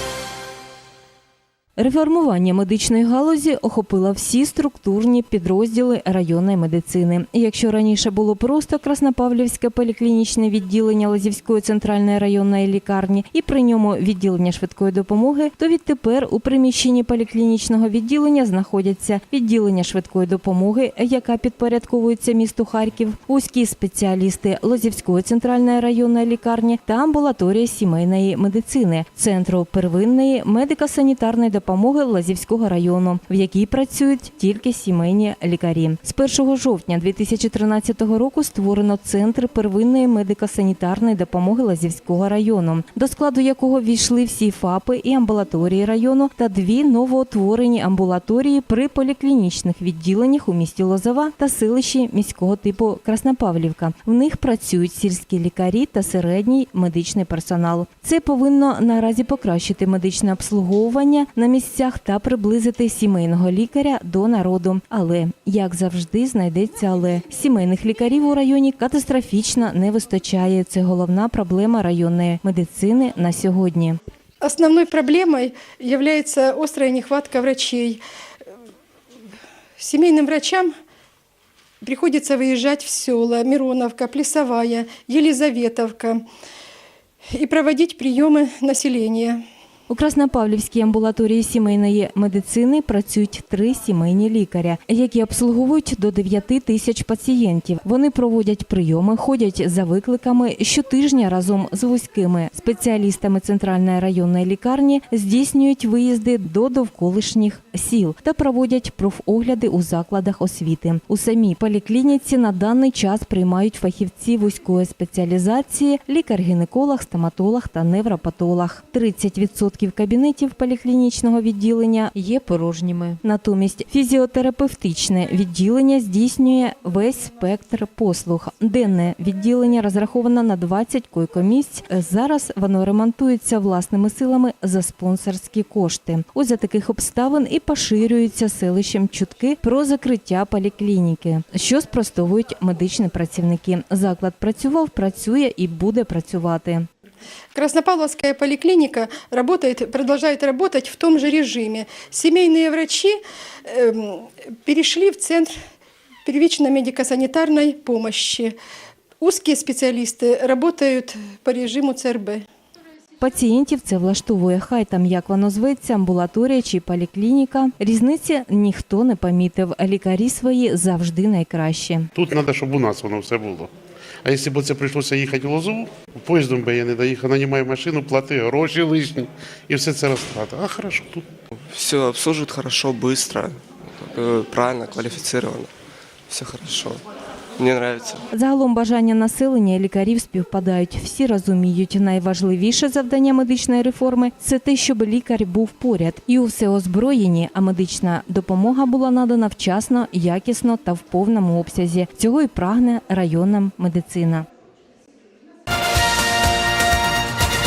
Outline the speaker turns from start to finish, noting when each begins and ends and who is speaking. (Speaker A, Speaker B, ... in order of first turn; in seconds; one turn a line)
Speaker A: 1.8-74.0
Speaker B: 74.5-78.0
Speaker B: 79.9-80.7
Speaker B: 81.9-86.2
Speaker B: 87.4-89.3
Speaker A: 89.9-146.9
Speaker B: 147.6-153.1
Speaker B: 153.7-155.5
Speaker B: 156.3-158.5
Speaker B: 159.2-162.4
Speaker A: 163.2-172.1
Speaker C: 172.2-173.7
Speaker C: 174.2-181.2
Speaker D: 181.7-185.7
Speaker D: 186.3-187.0
Speaker D: 187.6-188.2
Speaker A: 188.3-204.5